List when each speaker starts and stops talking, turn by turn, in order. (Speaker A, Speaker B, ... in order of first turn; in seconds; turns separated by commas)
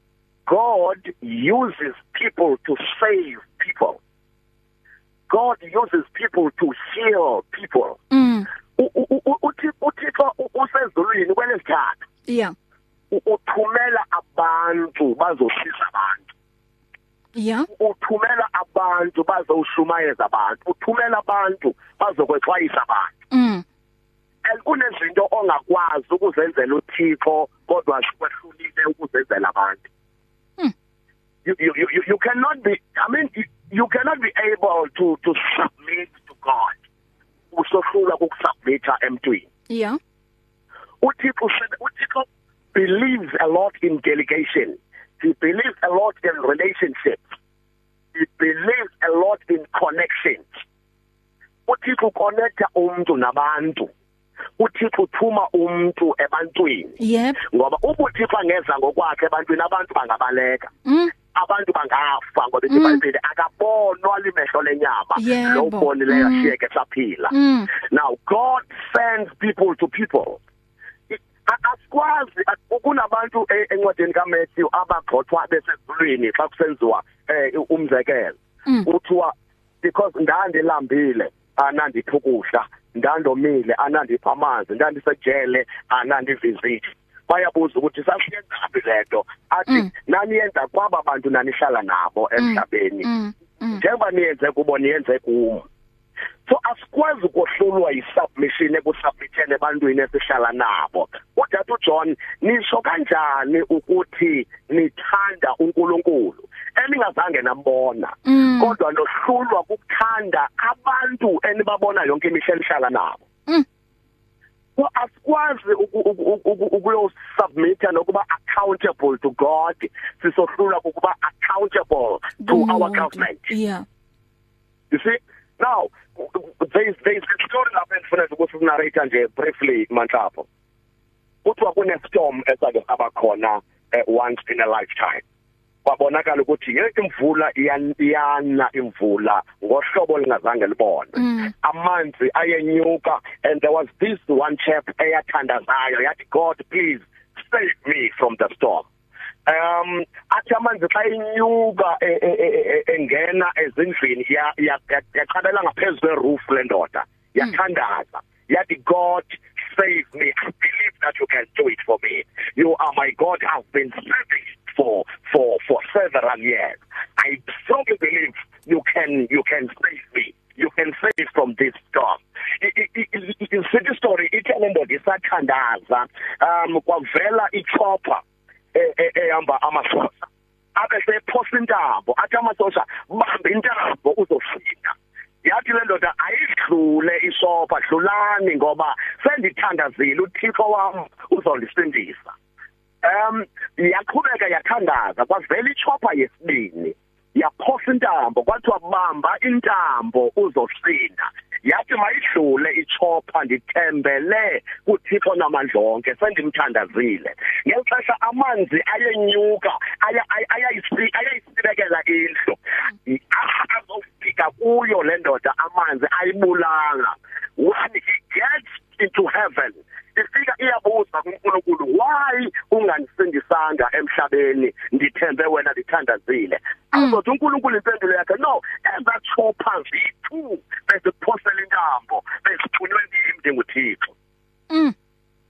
Speaker A: 0.5-4.0, Speaker A: 5.3-8.0, Speaker B: 8.1-8.5, Speaker A: 8.8-12.0, Speaker B: 12.3-12.5, Speaker A: 13.1-16.2, Speaker B: 17.3-17.7, Speaker A: 17.7-23.1, Speaker B: 23.3-23.6, Speaker A: 24.4-29.8, Speaker A: 31.4-36.7, Speaker A: 37.5-39.5, Speaker B: 39.7-40.0, Speaker A: 41.0-47.2, Speaker A: 48.1-50.5, Speaker A: 51.7-53.9, Speaker A: 54.6-60.7, Speaker B: 57.0-57.4, Speaker B: 60.8-61.1, Speaker A: 61.3-70.4, Speaker B: 62.7-63.0, Speaker B: 65.2-66.5, Speaker B: 67.3-67.7, Speaker A: 71.1-93.1, Speaker B: 92.4-93.8, Speaker A: 93.7-95.7, Speaker A: 96.5-113.2, Speaker B: 108.2-108.7, Speaker A: 114.8-123.5, Speaker B: 122.4-123.8, Speaker A: 124.9-130.5, Speaker A: 131.4-135.2, Speaker A: 135.8-148.8, Speaker B: 141.2-141.5, Speaker A: 149.4-178.2, Speaker A: 178.7-192.3, Speaker A: 193.0-234.1, Speaker B: 234.7-234.9